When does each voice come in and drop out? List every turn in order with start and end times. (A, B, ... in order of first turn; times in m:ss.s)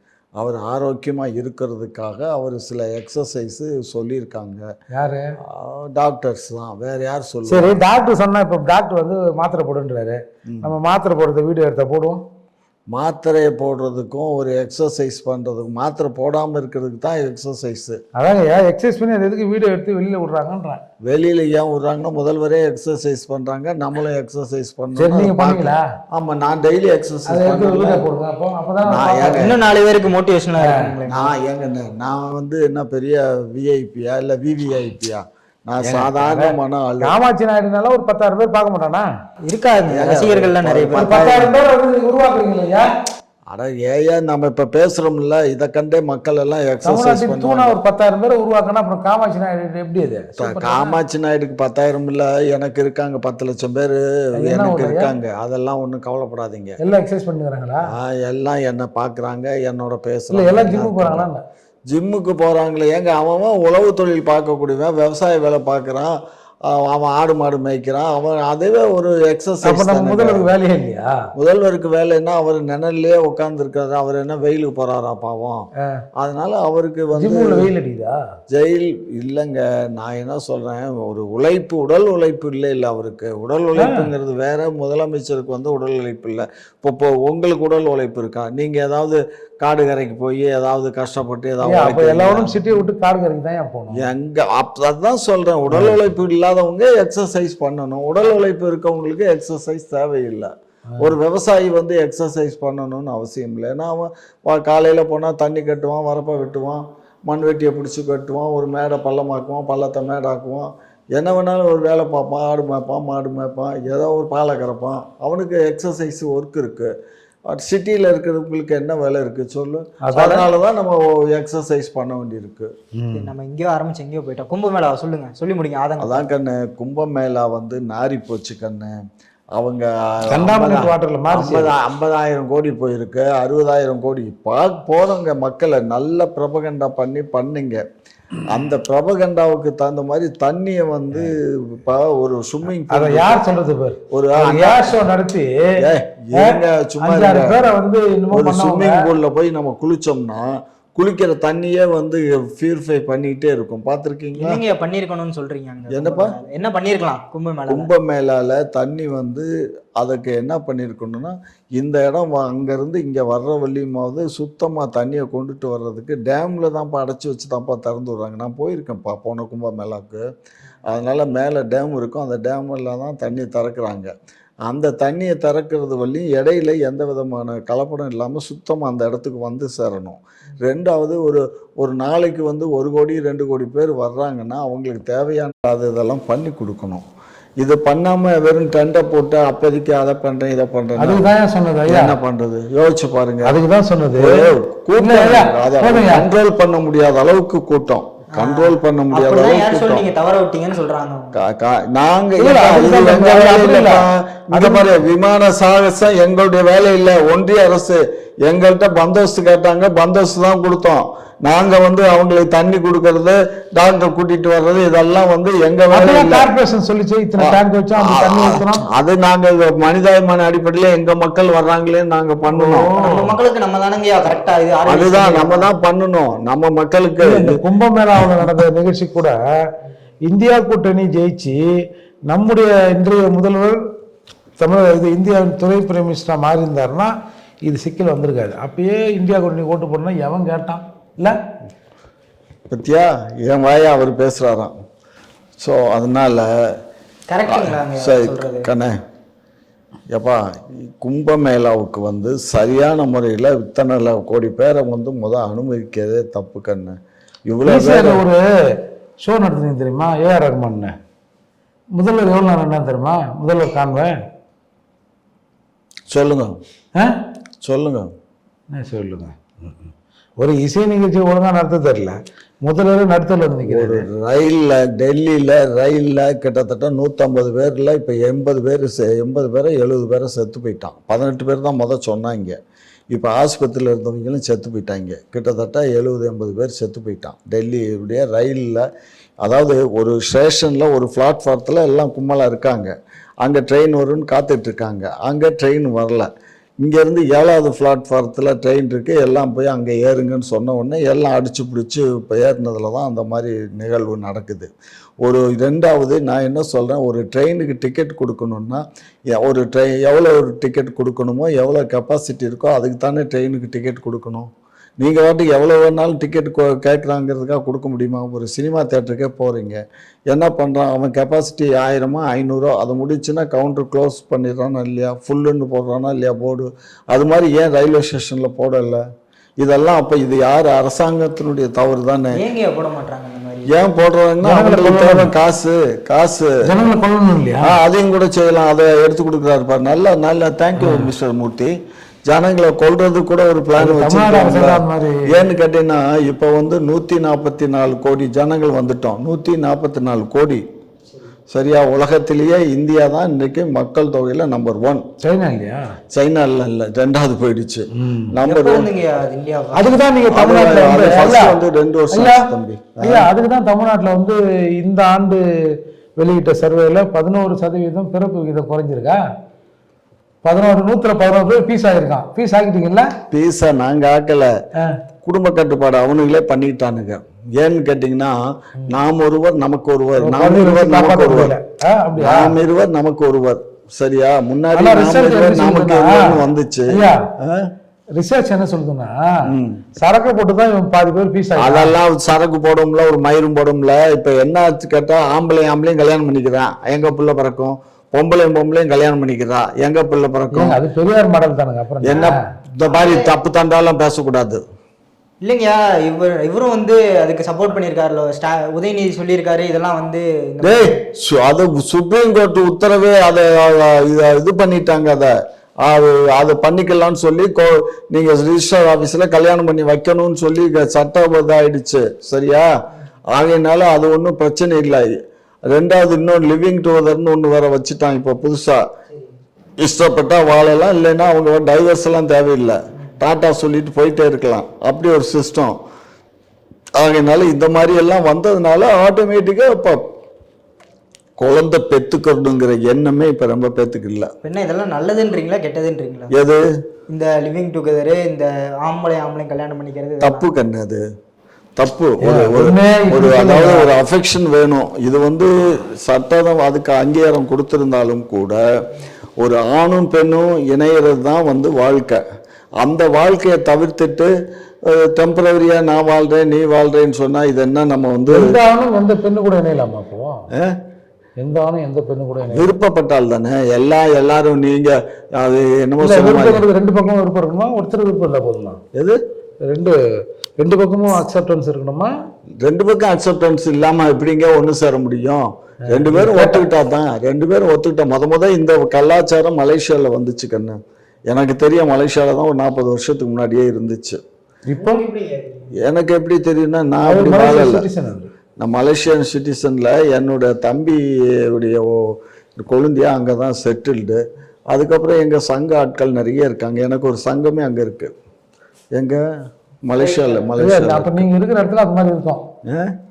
0:00.4-0:04.7 A
0:04.9-0:05.4 B
0:05.4-0:07.8 A
0:07.5-0:12.2 B
0:10.5-0:10.7 A
0:12.9-0:18.0 A
0:18.2-0:20.8 B
0:21.0-0:28.1 A
0:25.0-0:25.8 B
0:27.3-0:29.5 B
0:28.8-0:29.6 A
0:29.3-0:31.3 C
0:30.6-0:31.0 B
0:31.1-0:37.2 A
0:35.8-0:39.1 B
0:39.5-0:41.4 C
0:39.9-0:41.5 A
0:41.0-0:42.9 B
0:43.5-0:47.8 A
0:46.8-0:51.0 B
0:50.4-0:56.8 A
0:54.4-0:55.1 B
0:56.8-0:57.9 B
0:57.9-1:01.3 A
1:00.3-1:01.4 B
1:01.9-1:06.2 A
1:06.7-1:10.5 A
1:09.6-1:11.2 B
1:11.4-1:15.7 A
1:16.2-1:17.7 A
1:17.2-1:18.2 B
1:18.5-1:32.8 A
1:23.8-1:24.1 B
1:31.6-1:34.1 B
1:34.0-1:56.9 A
1:35.7-1:36.0 B
1:57.5-2:02.7 A
2:00.0-2:00.5 B
2:03.0-2:03.3 B
2:03.1-2:06.3 C
2:06.0-2:08.9 A
2:09.6-2:17.8 A
2:10.3-2:11.7 B
2:18.5-2:23.4 A
2:22.9-2:25.8 B
2:24.1-2:25.0 A
2:25.8-2:27.7 A
2:26.3-2:29.1 B
2:28.3-2:34.6 A
2:34.4-2:37.9 C
2:35.9-2:36.4 A
2:37.7-2:50.2 A
2:50.9-2:54.1 A
2:54.6-3:07.0 A
3:07.6-3:11.3 A
3:11.0-3:12.2 B
3:11.9-3:13.6 A
3:13.4-3:16.3 B
3:14.1-3:20.1 A
3:18.3-3:21.4 C
3:21.3-3:36.5 A
3:22.4-3:24.9 B
3:35.9-3:38.9 B
3:37.4-3:42.9 A
3:42.5-3:43.4 B
3:43.0-3:45.7 C
3:44.8-3:47.6 A
3:47.2-3:49.4 B
3:48.2-3:48.6 A
3:50.3-3:51.6 B
3:52.3-3:53.8 B
3:54.6-3:57.1 B
3:57.7-4:01.4 B
4:02.7-4:04.8 A
4:05.6-4:06.5 A
4:07.3-4:08.7 C
4:07.5-4:09.0 A
4:10.1-4:17.0 A
4:17.5-4:18.3 A
4:17.7-4:21.0 B
4:22.0-4:24.2 B
4:26.1-4:26.6 A
4:27.6-4:28.1 A
4:28.7-4:34.1 B
4:33.6-4:42.6 A
4:43.1-4:48.8 A
4:49.4-4:56.3 A
4:56.8-5:04.7 A
5:05.2-5:29.0 A
5:29.6-5:32.4 A
5:32.3-5:33.8 C
5:33.7-5:36.6 A
5:34.4-5:35.3 B
5:36.6-5:37.8 B
5:37.6-5:41.7 A
5:40.8-5:41.1 B
5:42.3-5:50.6 A
5:43.8-5:45.3 B
5:51.5-5:55.1 A
5:55.2-5:55.9 B
5:56.1-5:58.9 A
5:57.9-5:58.4 B
5:58.4-6:00.0 C
5:59.8-6:01.6 B
6:00.3-6:03.3 A
6:02.1-6:09.2 B
6:10.4-6:13.1 B
6:13.3-6:14.5 A
6:15.2-6:21.6 A
6:20.2-6:22.6 B
6:22.2-6:27.7 A
6:24.7-6:27.3 B
6:28.2-6:32.0 B
6:29.5-6:29.8 A
6:31.6-6:40.8 A
6:40.5-6:42.4 B
6:42.0-6:44.6 A
6:42.8-6:43.3 C
6:45.4-6:51.0 C
6:50.6-7:02.7 A
7:03.3-7:05.1 A
7:05.7-7:08.9 A
7:09.8-7:15.8 A
7:17.0-7:20.0 A
7:21.4-7:24.3 A
7:24.4-7:26.3 C
7:26.3-7:26.6 A
7:27.1-7:30.5 C
7:30.2-7:31.0 A
7:31.8-7:38.6 A
7:32.2-7:33.9 B
7:39.4-7:42.2 A
7:42.8-7:44.3 A
7:44.8-7:48.6 A
7:48.3-7:50.5 B
7:50.6-7:50.8 A
7:51.4-7:52.8 B
7:52.4-7:56.6 A
7:56.0-7:58.8 B
7:59.0-7:59.2 A
7:59.6-8:00.0 B
8:00.6-8:02.1 B
8:02.6-8:14.2 A
8:05.9-8:06.7 B
8:14.7-8:15.0 B
8:14.8-8:15.7 C
8:15.8-8:17.9 A
8:17.0-8:18.3 B
8:18.6-8:28.1 A
8:29.0-8:29.2 A
8:29.9-8:31.3 A
8:30.0-8:30.6 C
8:30.6-8:32.4 B
8:32.7-8:33.0 A